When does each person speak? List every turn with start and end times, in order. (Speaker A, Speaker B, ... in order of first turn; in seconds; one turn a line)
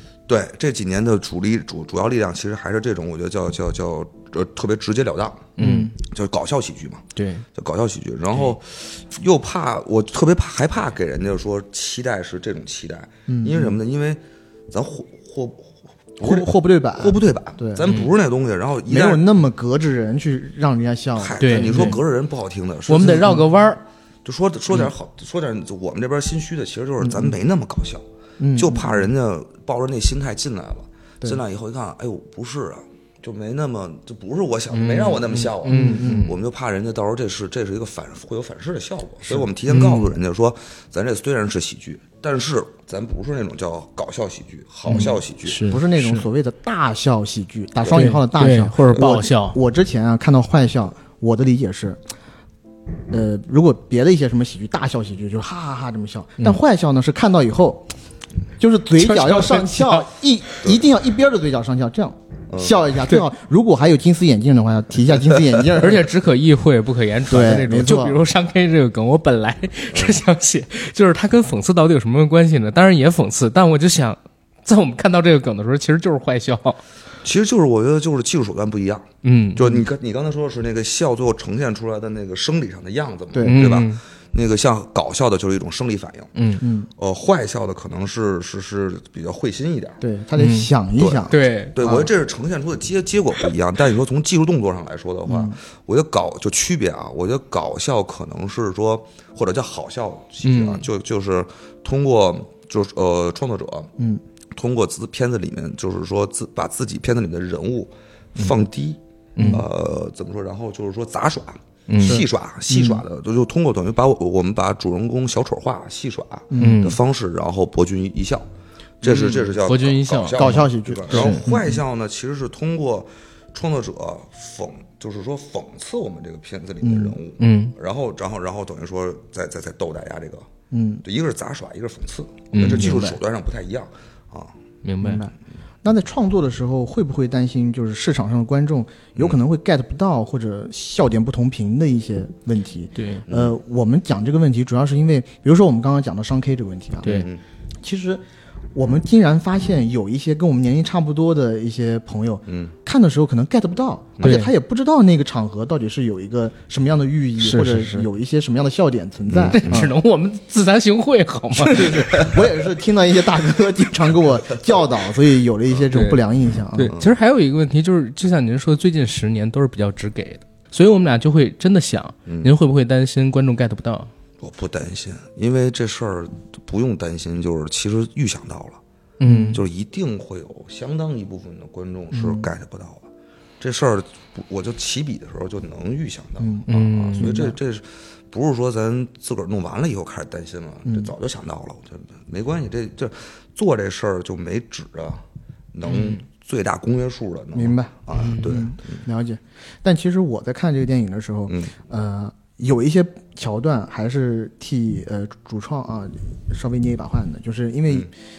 Speaker A: 0.3-19.2
Speaker B: 5.6-5.9
Speaker B: 7.2-7.4
Speaker C: 13.3-13.8
Speaker C: 16.2-17.9
Speaker B: 17.8-18.1
Speaker C: 18.9-22.0
Speaker A: 21.2-23.4
Speaker B: 21.4-22.0
Speaker B: 22.9-23.8
Speaker C: 22.9-23.4
Speaker A: 24.2-28.0
Speaker C: 27.0-27.4
Speaker C: 28.4-29.1
Speaker A: 28.5-45.6
Speaker B: 34.7-36.3
Speaker C: 35.7-36.3
Speaker B: 39.7-40.1
Speaker B: 44.9-46.2
Speaker C: 44.9-52.0
Speaker A: 47.8-48.1
Speaker B: 47.9-49.6
Speaker C: 53.1-57.9
Speaker C: 58.6-66.1
Speaker B: 59.0-60.1
Speaker A: 62.5-62.8
Speaker B: 65.7-76.8
Speaker C: 67.3-68.2
Speaker A: 69.9-70.2
Speaker A: 77.2-86.3
Speaker B: 79.2-79.6
Speaker C: 83.3-83.7
Speaker B: 83.4-84.0
Speaker B: 86.3-86.6
Speaker C: 86.6-86.9
Speaker A: 87.0-90.0
Speaker C: 90.0-92.1
Speaker B: 90.4-90.7
Speaker A: 91.0-103.9
Speaker B: 91.3-91.7
Speaker C: 95.2-95.6
Speaker B: 100.4-100.8
Speaker A: 104.5-109.0
Speaker B: 109.3-109.6
Speaker A: 109.5-118.5
Speaker B: 111.9-112.2
Speaker C: 112.0-113.0
Speaker C: 116.5-116.9
Speaker B: 116.6-117.0
Speaker A: 119.0-130.5
Speaker B: 119.0-121.5
Speaker C: 120.3-121.8
Speaker C: 126.8-127.2
Speaker B: 127.4-127.7
Speaker C: 130.7-131.0
Speaker A: 131.0-134.5
Speaker B: 132.5-133.2
Speaker B: 134.8-135.2
Speaker C: 135.0-147.3
Speaker B: 142.9-143.2
Speaker A: 143.3-143.5
Speaker B: 147.0-147.3
Speaker A: 147.0-147.4
Speaker C: 147.8-148.2
Speaker C: 148.7-159.9
Speaker A: 152.5-152.7
Speaker B: 154.2-154.5
Speaker B: 157.4-158.1
Speaker A: 159.3-159.9
Speaker B: 159.5-162.2
Speaker C: 161.5-166.9
Speaker A: 161.9-162.5
Speaker B: 165.9-166.2
Speaker B: 166.7-174.1
Speaker A: 166.9-167.1
Speaker A: 172.3-172.5
Speaker A: 174.4-178.8
Speaker B: 179.2-179.6
Speaker C: 179.2-179.5
Speaker A: 179.5-183.1
Speaker C: 182.1-182.5
Speaker A: 183.6-199.0
Speaker C: 186.4-187.5
Speaker B: 186.7-187.5
Speaker C: 190.8-191.1
Speaker B: 195.9-196.2
Speaker C: 197.5-208.1
Speaker B: 198.1-198.7